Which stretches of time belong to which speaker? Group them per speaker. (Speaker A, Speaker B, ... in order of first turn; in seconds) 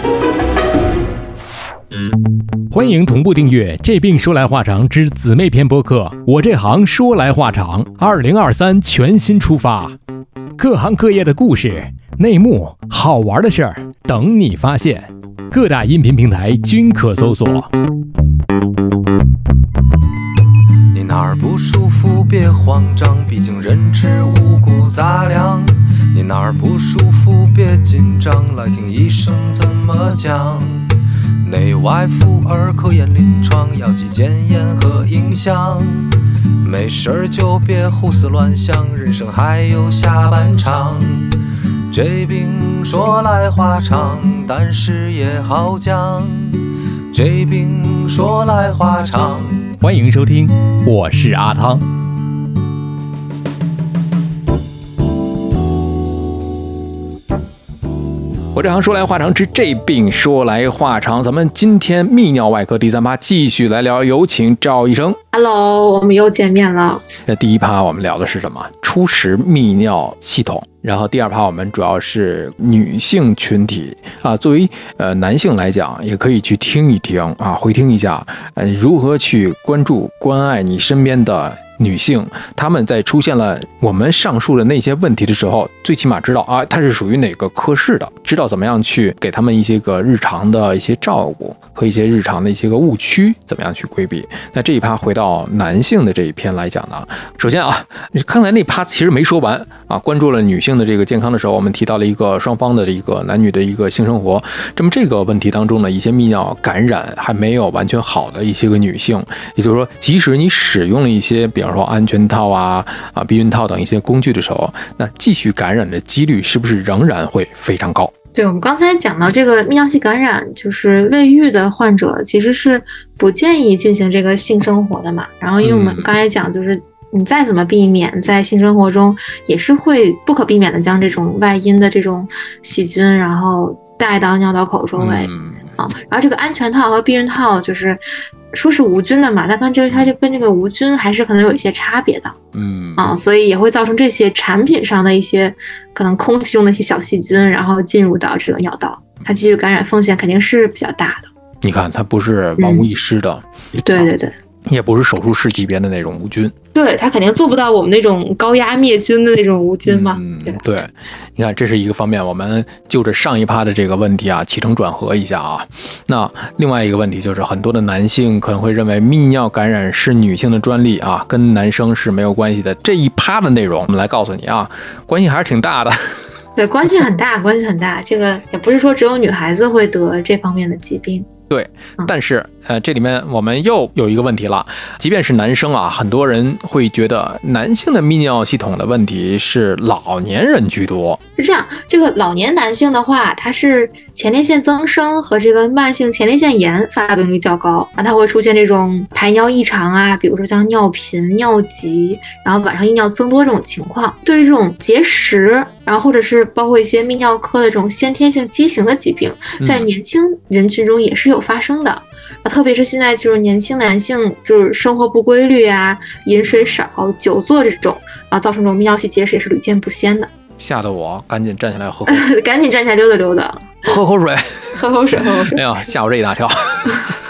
Speaker A: 2.7-10.0, 10.6-17.7, 49.8-51.9, 58.5-65.2, 67.2-118.1, 125.6-126.1, 135.0-135.7, 142.5-143.1, 151.6-154.1, 154.7-156.5, 159.8-176.2, 181.5-191.2, 209.6-209.9, 216.5-216.8, 220.6-222.3, 223.8-227.2
Speaker B: 20.9-30.9, 31.4-41.3, 41.9-49.7
Speaker C: 65.3-67.0, 118.3-142.4, 143.0-151.3, 152.6-152.9, 153.8-154.3, 156.7-160.6, 176.6-181.3, 191.4-220.3, 222.1-223.9, 224.7-225.6